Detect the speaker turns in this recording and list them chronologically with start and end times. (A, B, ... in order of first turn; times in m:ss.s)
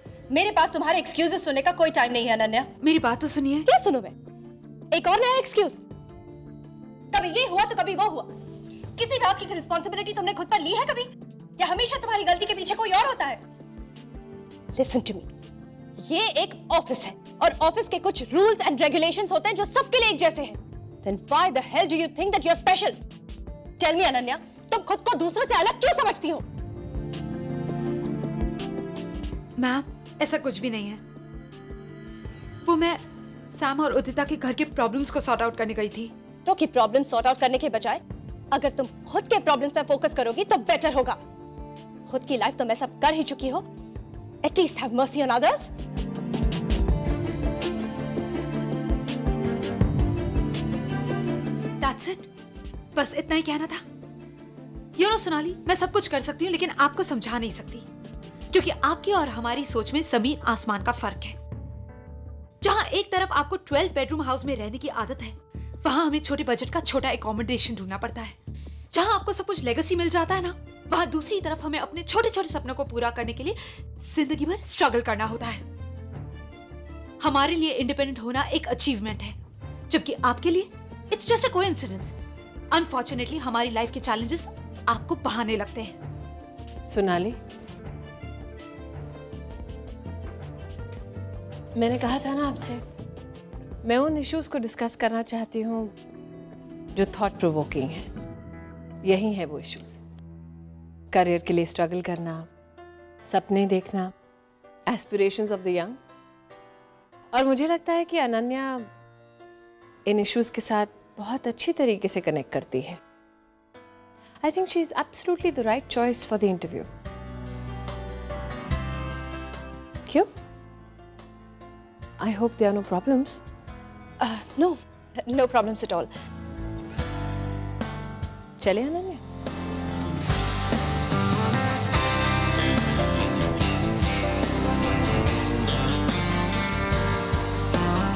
0:00.3-0:02.7 A
0:02.8-0:03.7 B
0:03.7-0:04.1 A
0:04.9-0:05.8 A
0:07.1-0:08.3 A
0:09.0-0:11.1 A
0:11.6-0:13.4 A
0:14.8-0:15.3 A
0:16.0-0:22.9 A
0:23.8-0:26.4 A
0:29.6-0:31.0 B
0:32.7-0:33.0 B
0:33.6-0:36.1 B
0:36.5-0:38.0 A
0:38.5-0:41.2 A
0:42.1-0:43.6 A
0:44.5-0:45.7 A
0:51.8-0:52.3 B
0:53.0-0:53.8 B
0:55.0-0:57.8 B
0:58.5-1:01.4 B
1:02.6-1:08.4 B
1:08.9-1:15.6 B
1:17.2-1:19.4 B
1:19.9-1:22.1 B
1:22.7-1:25.9 B
1:26.9-1:27.4 C
1:31.8-1:32.8 C
1:33.8-1:35.9 C
1:37.0-1:38.0 C
1:39.0-1:40.0 C
1:41.1-1:42.5 C
1:43.3-1:44.1 C
1:44.9-1:46.0 C
1:47.3-1:48.9 C
1:50.1-1:53.0 C
1:54.4-1:56.9 C
2:02.2-2:03.4 C
2:04.2-2:04.8 A
2:05.3-2:06.1 A
2:08.6-2:09.2 C